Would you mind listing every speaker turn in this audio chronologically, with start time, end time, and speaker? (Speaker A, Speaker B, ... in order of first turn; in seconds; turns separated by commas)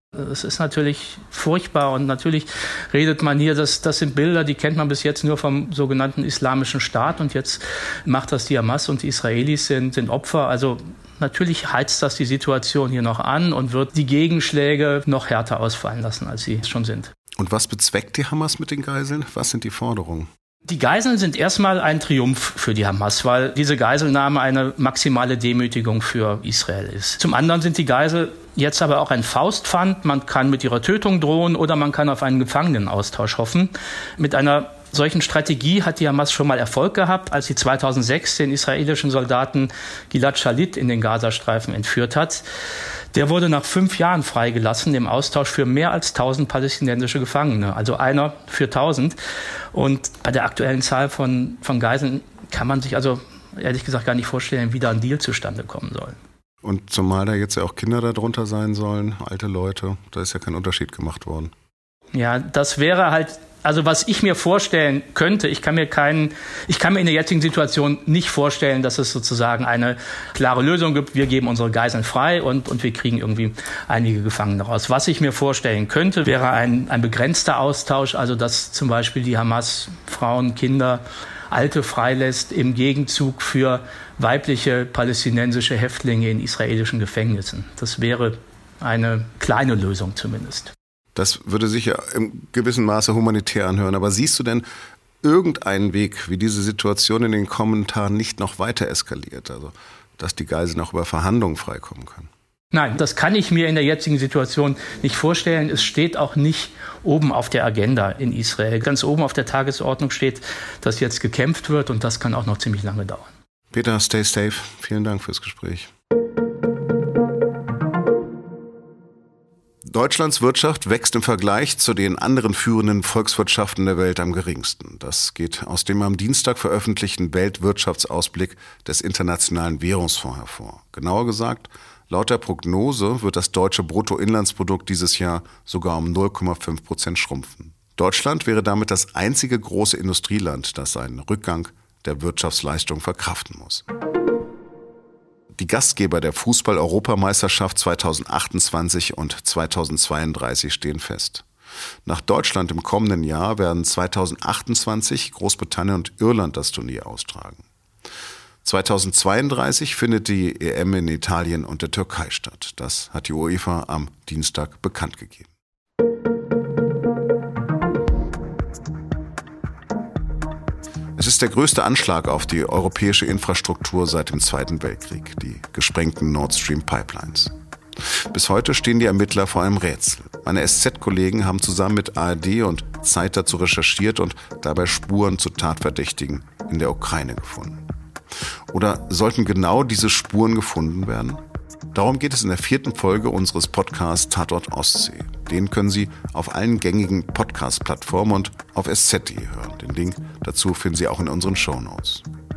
Speaker A: 0.1-17.1, Speaker B: 17.4-20.3, Speaker A: 20.7-42.5, Speaker A: 43.1-49.2, Speaker A: 49.7-56.2, Speaker B: 56.6-61.5, Speaker A: 62.1-90.7, Speaker B: 91.2-94.7, Speaker B: 95.2-102.3, Speaker A: 102.7-113.3, Speaker B: 113.7-115.9, Speaker B: 119.9-143.9, Speaker B: 145.6-151.5, Speaker B: 152.1-157.7, Speaker B: 158.6-165.5, Speaker B: 171.2-177.5, Speaker B: 178.3-187.8, Speaker B: 188.7-191.4, Speaker B: 191.9-202.3